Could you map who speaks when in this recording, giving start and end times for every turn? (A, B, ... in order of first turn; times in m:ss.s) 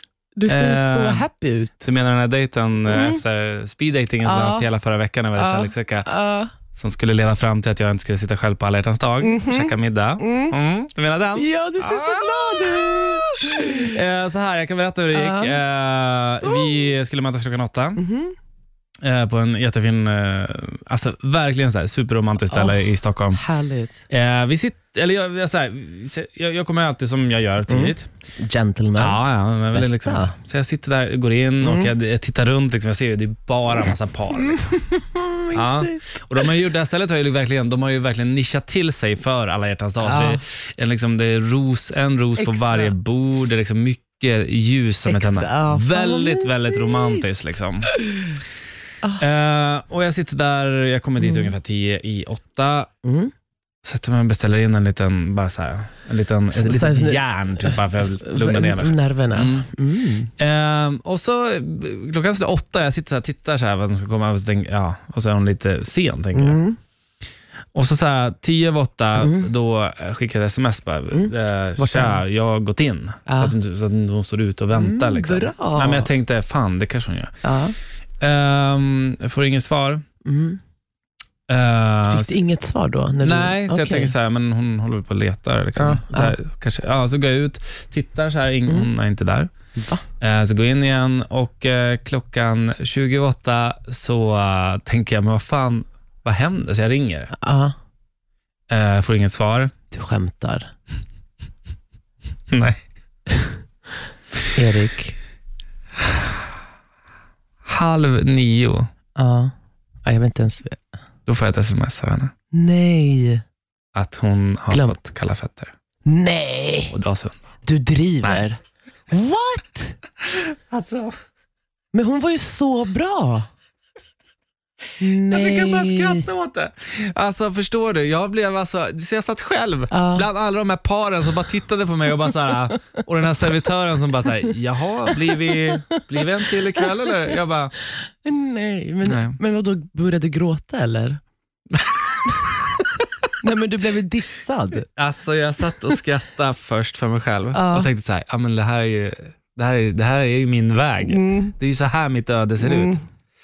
0:00.4-0:01.8 A
0:00.5-0:01.3 B
0:01.8-0:06.1 B
0:02.9-0:03.2 A
0:04.2-0:04.7 A
0:05.4-0:06.5 A
0:06.8-0:18.0 B
0:09.2-0:10.5 A
0:11.4-0:14.0 A
0:15.1-0:15.6 A
0:16.4-0:16.9 A
0:18.0-0:18.3 A
0:19.0-0:23.4 B
0:22.4-0:24.0 A
0:24.1-0:28.1 B
0:27.7-0:30.3 A
0:29.0-0:34.6 B
0:31.6-0:31.9 A
0:34.3-0:36.5 A
0:35.5-0:47.9 B
0:40.0-0:40.4 A
0:42.4-0:43.0 A
0:45.0-0:47.2 A
0:47.9-0:48.4 A
0:49.2-0:52.9 B
0:51.2-0:51.6 A
0:53.0-0:53.3 A
0:53.8-0:59.7 B
0:56.5-1:00.3 A
1:00.4-1:06.6 B
1:06.3-1:06.8 A
1:07.7-1:17.3 B
1:09.2-1:09.5 A
1:11.1-1:12.2 A
1:13.2-1:13.6 A
1:14.7-1:16.1 A
1:17.4-1:17.7 A
1:18.2-1:20.0 B
1:20.2-1:20.6 A
1:21.5-1:22.4 B
1:22.1-1:24.1 A
1:23.2-1:29.5 B
1:25.8-1:26.4 A
1:29.8-1:30.0 A
1:30.2-1:37.3 B
1:37.3-1:37.7 A
1:38.7-1:39.7 B
1:39.9-1:40.7 A
1:42.5-1:42.8 B
1:44.5-1:45.2 A
1:47.6-1:48.9 B
1:49.2-1:49.5 A
1:50.0-1:50.8 A
1:51.3-1:52.3 B
1:52.5-1:53.4 A
1:53.9-1:55.7 B
1:54.7-1:55.0 A
1:56.0-1:56.9 A
1:56.9-1:57.4 B
1:57.6-2:00.0 A
2:00.3-2:01.2 B
2:01.9-2:03.5 A
2:05.0-2:06.3 A
2:05.3-2:17.7 B
2:09.9-2:10.3 A
2:15.3-2:17.3 A
2:17.9-2:21.2 A
2:19.0-2:19.4 B
2:21.7-2:22.6 B
2:23.4-2:24.9 A
2:24.9-2:33.0 B
2:25.6-2:26.0 A
2:27.5-2:27.9 A
2:31.0-2:31.5 A
2:32.6-2:33.0 A